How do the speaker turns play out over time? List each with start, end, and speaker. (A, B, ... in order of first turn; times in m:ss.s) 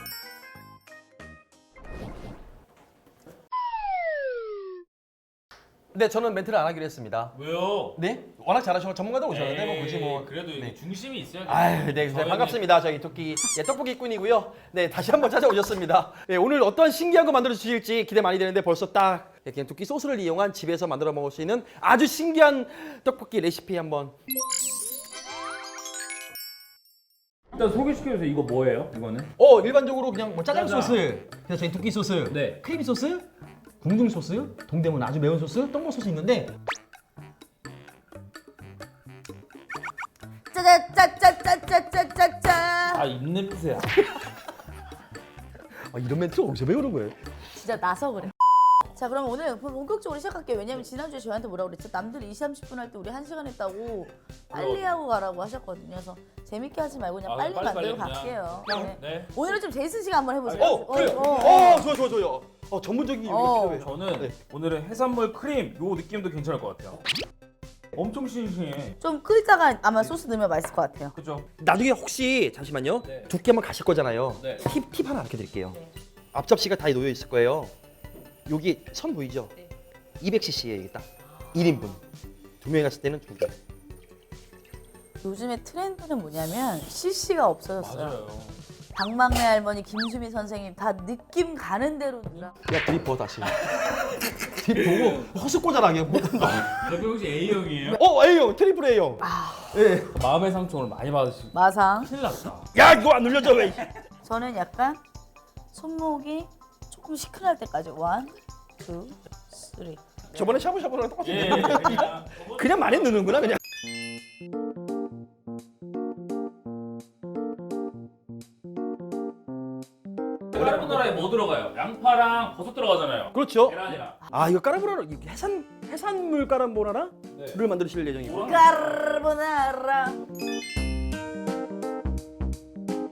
0:05.9-0:07.4 A
0:07.3-0:08.0 B
0:08.0-0:10.8 A
0:09.3-0:12.6 B
0:11.4-0:24.1 A
0:27.5-0:29.3 B
0:29.4-0:33.2 A
0:30.5-0:31.0 B
0:32.3-0:32.6 B
0:33.8-0:36.5 A
0:40.5-0:43.1 C
0:42.9-0:44.0 B
0:45.9-0:47.2 A
0:47.6-0:48.3 C
0:49.0-1:01.9 C
0:54.5-0:55.0 B
0:57.3-0:59.4 B
1:00.4-1:01.8 B
1:00.6-1:04.3 A
1:03.3-1:03.8 C
1:03.6-1:07.0 B
1:07.9-1:09.0 B
1:09.0-1:11.1 C
1:11.2-1:11.5 B
1:11.6-1:15.8 A
1:13.0-1:13.3 B
1:14.4-1:14.6 B
1:16.3-1:17.7 A
1:18.5-1:19.5 A
1:20.2-1:22.0 A
1:22.6-1:23.5 A
1:25.2-1:28.2 C
1:27.8-1:28.6 B
1:28.9-1:32.5 C
1:32.7-1:33.7 A
1:34.3-1:36.9 A
1:34.7-1:35.3 B
1:36.6-1:38.0 B
1:37.9-1:39.2 A
1:39.2-1:39.8 C
1:39.7-1:40.2 A
1:40.1-1:41.5 B
1:41.5-1:42.1 C
1:42.0-1:42.7 B
1:42.7-1:43.9 A
1:44.2-1:45.0 C
1:45.7-1:50.6 C
1:50.3-1:53.6 A
1:51.2-1:53.3 B
2:00.5-2:04.2 B
2:03.3-2:03.8 A
2:04.2-2:04.5 C
2:04.3-2:08.7 A
2:07.3-2:07.6 B
2:08.2-2:09.0 B
2:08.4-2:10.2 C